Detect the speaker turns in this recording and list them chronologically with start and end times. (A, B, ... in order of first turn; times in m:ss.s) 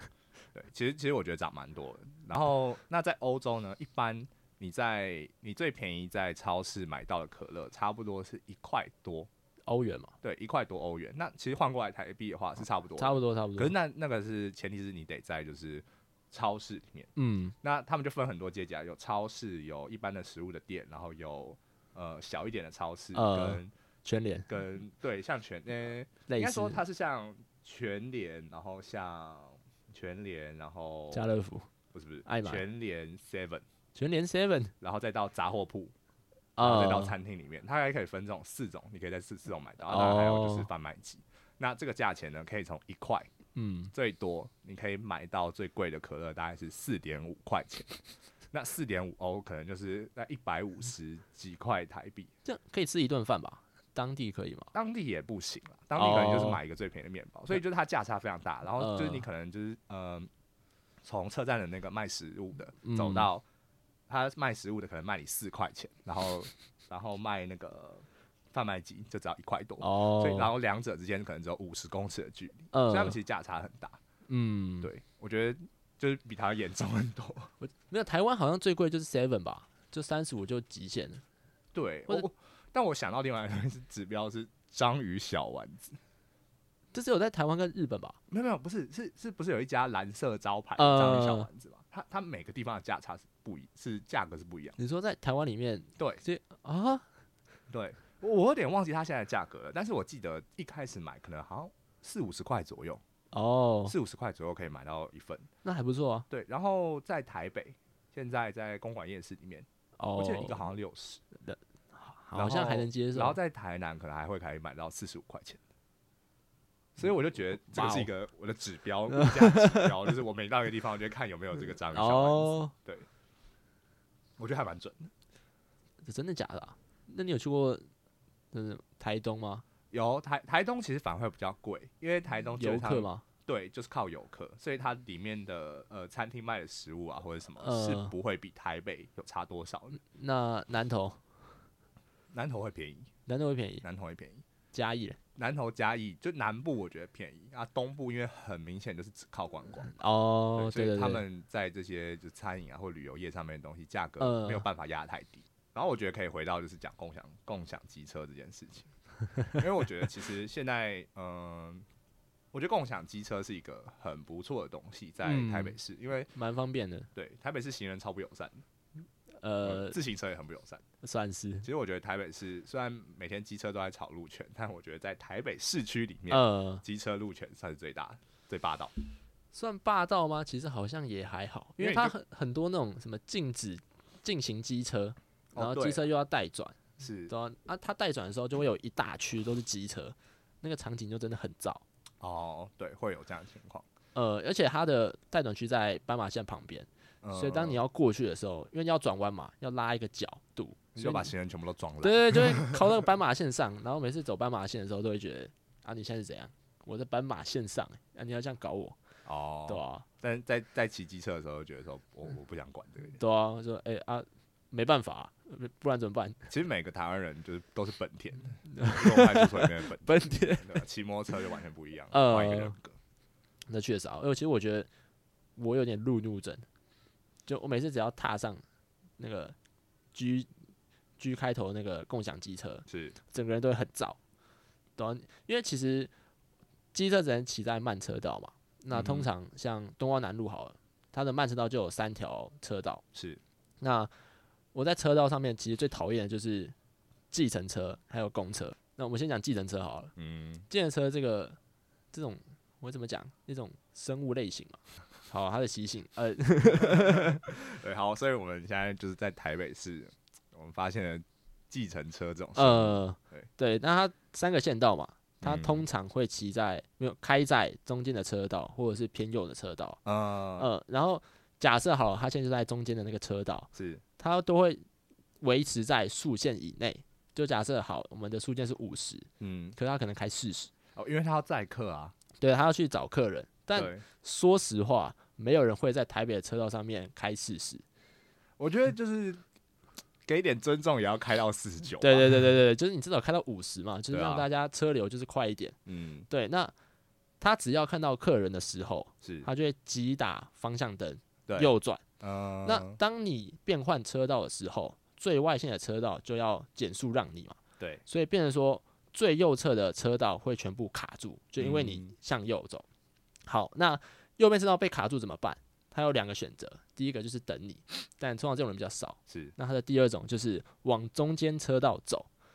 0:00.5-0:09.3 A
0:09.7-0:10.1 B
0:10.2-0:17.1 A
0:13.0-0:13.7 B
0:17.2-0:17.5 B
0:17.6-0:23.7 A
0:23.1-0:24.5 B
0:24.5-0:31.2 A
0:26.3-0:26.8 B
0:31.1-0:31.7 B
0:31.9-0:33.6 A
0:32.2-0:32.6 B
0:33.9-0:34.7 B
0:34.8-0:35.9 A
0:36.6-0:37.1 B
0:36.6-0:43.3 A
0:39.8-0:40.7 B
0:43.5-0:43.9 B
0:43.9-0:48.0 A
0:48.5-0:52.3 A
0:52.4-0:54.7 B
0:54.7-1:00.3 A
0:56.0-0:56.6 B
0:58.8-0:59.2 B
1:01.0-1:03.4 A
1:02.8-1:03.3 B
1:04.1-1:14.0 A
1:09.8-1:10.5 B
1:12.7-1:13.2 B
1:14.3-1:14.9 B
1:14.8-1:17.5 A
1:17.6-1:21.2 B
1:21.7-1:26.0 A
1:26.9-1:28.2 B
1:28.3-1:34.8 A
1:30.8-1:31.5 B
1:34.8-1:37.0 B
1:37.7-1:43.0 A
1:43.3-1:43.9 B
1:43.8-1:45.5 A
1:45.6-1:46.3 B
1:46.3-1:51.2 A
1:50.0-1:50.6 B
1:51.4-1:53.4 B
1:52.3-1:55.6 A
1:57.0-2:03.1 A
1:57.7-1:58.1 B
1:59.1-2:00.0 B
2:01.9-2:02.7 B
2:04.4-2:05.1 A
2:06.0-2:07.9 B
2:08.5-2:09.6 B
2:09.9-2:20.0 A
2:12.6-2:13.2 B
2:17.6-2:18.1 B
2:20.0-2:21.2 B
2:22.3-2:23.1 A
2:23.2-2:23.8 B
2:23.8-2:24.4 A
2:24.7-2:25.2 B
2:25.4-2:29.9 A
2:29.9-2:31.2 B
2:30.6-2:38.9 A
2:34.2-2:34.6 B
2:39.5-2:41.8 A
2:42.5-2:46.3 A
2:45.2-2:45.8 B
2:46.3-2:47.1 B
2:47.1-2:48.6 A
2:49.4-2:50.0 B
2:49.6-2:50.8 A
2:51.0-2:51.7 B
2:51.6-2:58.9 A
2:56.3-2:56.8 B
2:59.5-3:11.8 B
3:01.8-3:02.1 A
3:05.5-3:06.0 A
3:07.0-3:07.3 A
3:12.2-3:13.8 A
3:14.1-3:21.3 B
3:17.2-3:17.8 A
3:20.9-3:22.8 A
3:22.0-3:29.0 B
3:29.2-3:33.2 A
3:29.7-3:30.0 B
3:33.2-3:36.5 B
3:36.5-3:43.0 A
3:38.7-3:40.8 B
3:42.1-3:42.8 B
3:43.7-3:44.9 B
3:45.6-3:46.6 B
3:47.5-3:48.6 B
3:49.2-3:49.6 B
3:50.1-3:50.5 B
3:51.2-3:54.2 B
3:52.9-3:53.2 A
3:55.0-3:56.1 B
3:56.9-4:03.0 B
3:58.9-3:59.3 A
4:03.1-4:03.4 A
4:03.8-4:04.1 B
4:04.7-4:06.7 B
4:07.3-4:10.1 B
4:10.2-4:10.6 A
4:10.7-4:11.6 B
4:12.1-4:17.4 B
4:16.8-4:23.5 A
4:22.5-4:30.0 B
4:25.4-4:25.8 A
4:30.0-4:30.7 A
4:30.6-4:34.8 B
4:33.7-4:34.0 A
4:35.4-4:40.7 B
4:39.4-4:39.8 A
4:40.9-4:42.1 A
4:42.4-4:47.8 B
4:43.7-4:44.0 A
4:48.6-4:49.4 A
4:50.2-4:52.4 A
4:52.0-4:55.8 B
4:54.1-4:54.5 A
4:55.8-4:56.3 A
4:56.3-4:56.7 B
4:57.4-5:02.0 B
4:59.2-4:59.5 A
5:01.5-5:03.0 A
5:02.6-5:12.8 B
5:11.6-5:12.1 A
5:13.5-5:22.3 B
5:19.3-5:19.5 A